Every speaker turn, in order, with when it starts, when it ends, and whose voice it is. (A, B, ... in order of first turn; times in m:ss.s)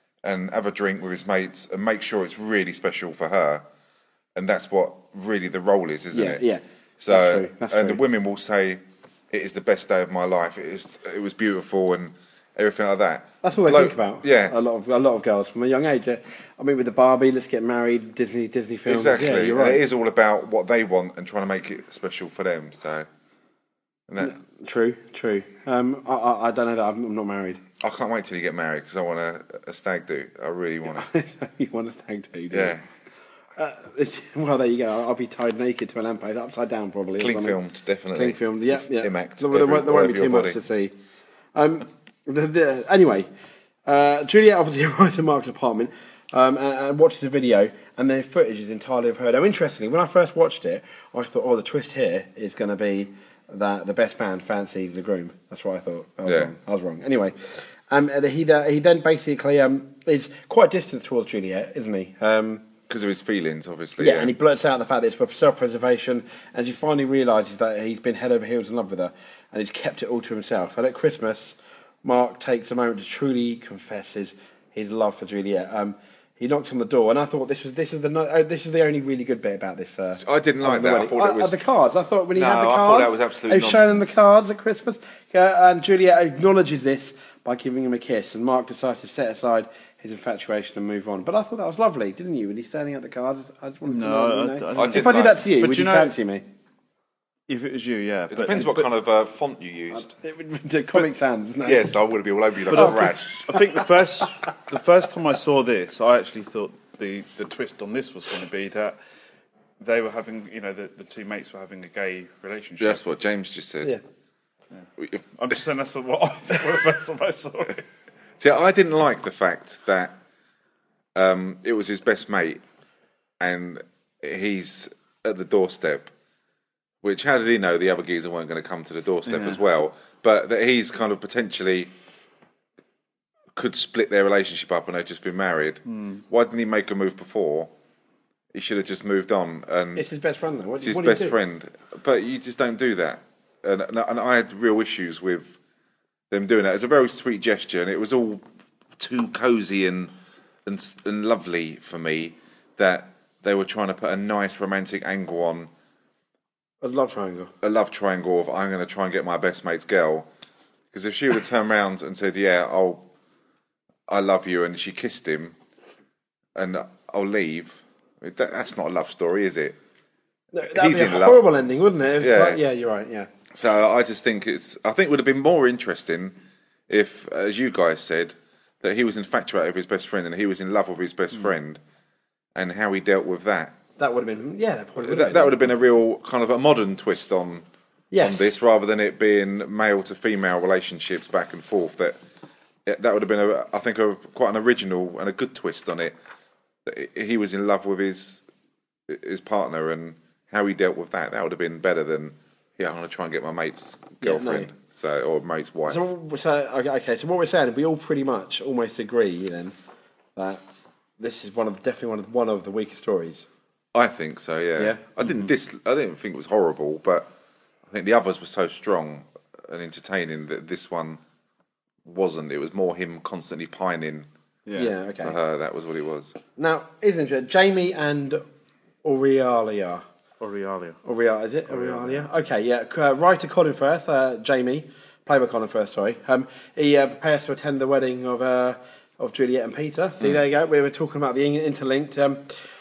0:00.2-0:03.6 A
0:04.3-0:06.4 A
0:06.1-0:08.0 B
0:07.0-0:14.5 A
0:13.4-0:19.8 B
0:18.9-0:23.1 A
0:24.2-0:27.6 B
0:27.8-0:31.1 A
0:30.9-0:32.8 B
0:32.5-0:32.8 A
0:33.6-0:37.6 B
0:37.2-0:40.6 A
0:38.1-0:40.9 B
0:41.5-0:43.3 B
0:43.8-1:02.6 B
0:56.3-0:56.5 A
1:02.9-1:04.3 A
1:04.0-1:36.4 B
1:20.2-1:21.6 A
1:22.3-1:24.2 A
1:33.8-1:36.2 C
1:34.7-1:35.4 A
1:37.5-1:38.9 C
1:38.3-1:40.1 A
1:39.9-1:41.9 B
1:41.6-1:43.5 A
1:42.7-1:43.8 B
1:42.7-1:49.0 C
1:49.8-1:53.0 C
1:52.8-1:53.9 A
1:54.7-1:57.8 C
1:58.4-2:00.1 A
2:01.1-2:02.6 A
2:03.4-2:06.1 A
2:07.0-2:11.9 A
2:09.2-2:09.6 C
2:13.6-2:17.7 A
2:15.9-2:16.2 C
2:18.5-2:20.0 A
2:20.0-2:21.4 B
2:20.8-2:25.6 A
2:26.3-2:28.4 A
2:29.0-2:30.1 A
2:30.6-2:35.7 A
2:36.8-2:37.5 B
2:37.6-2:40.3 A
2:40.9-2:43.0 A
2:44.1-2:45.5 A
2:46.5-2:49.8 A
2:50.5-2:53.3 B
2:50.7-2:51.4 A
2:52.2-2:52.6 A
2:53.5-2:56.3 A
2:56.9-3:01.8 A
3:02.5-3:03.8 A
3:04.0-3:05.7 B
3:05.0-3:07.6 A
3:08.1-3:08.5 B
3:08.2-3:12.2 A
3:12.9-3:16.1 A
3:16.8-3:18.4 A
3:19.1-3:26.0 A
3:24.2-3:24.7 B
3:25.9-3:29.7 B
3:30.4-3:30.6 B
3:31.2-3:33.4 B
3:33.9-3:37.3 A
3:34.8-3:35.0 B
3:37.9-3:41.2 A
3:42.0-3:44.3 A
3:44.7-3:44.9 C
3:44.7-3:45.4 B
3:45.2-3:46.3 A
3:46.6-3:48.4 B
3:49.0-3:50.0 B
3:50.4-3:51.0 C
3:51.0-4:02.4 B
3:51.7-3:52.3 C